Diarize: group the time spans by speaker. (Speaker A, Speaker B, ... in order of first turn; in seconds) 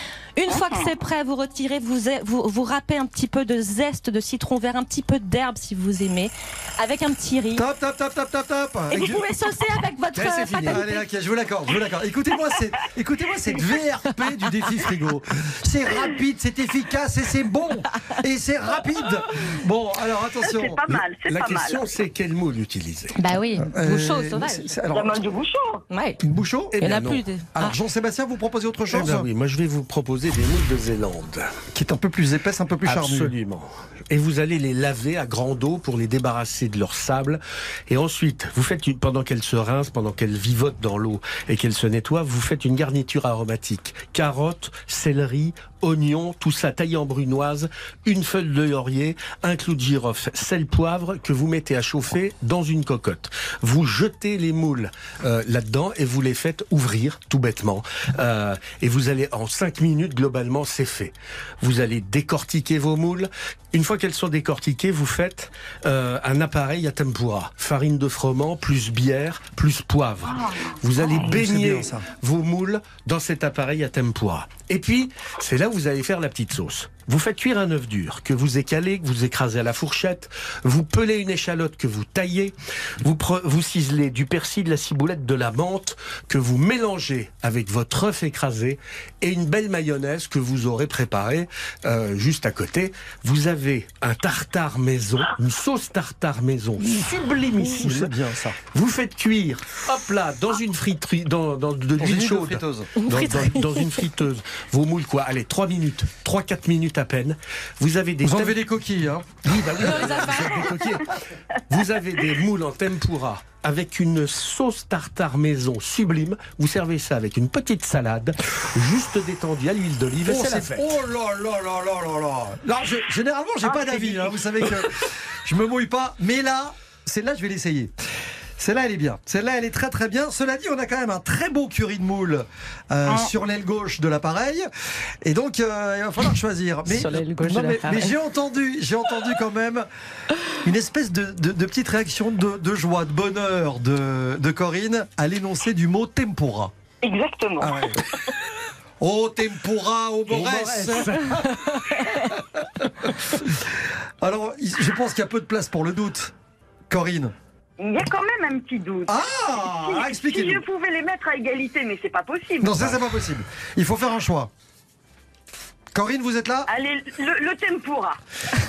Speaker A: 0.3-7.6, 8.9-11.0, 23.2-24.7, 25.9-26.2, 26.8-27.7, 103.0-104.0, 109.8-110.7, 136.9-138.1
Speaker B: 0.5-0.9, 20.4-21.9, 24.9-25.8, 147.0-148.0, 157.8-162.8, 166.7-168.2
Speaker C: 7.5-9.2, 10.6-20.9, 23.6-25.2, 26.2-26.8, 27.5-29.3, 31.7-33.3, 71.0-72.0, 96.8-98.6, 102.0-102.9, 108.2-110.2, 120.2-127.9, 128.6-134.7, 135.2-139.8, 140.6-146.7, 147.6-148.0, 149.0-151.6, 153.4-156.3, 156.9-157.3, 159.1-160.6, 162.6-164.5, 165.9-166.7
Speaker D: 10.1-10.8, 21.2-23.2, 26.7-27.2, 28.9-31.5, 32.8-98.1, 98.7-108.6, 109.4-111.2, 111.7-120.8, 150.3-151.8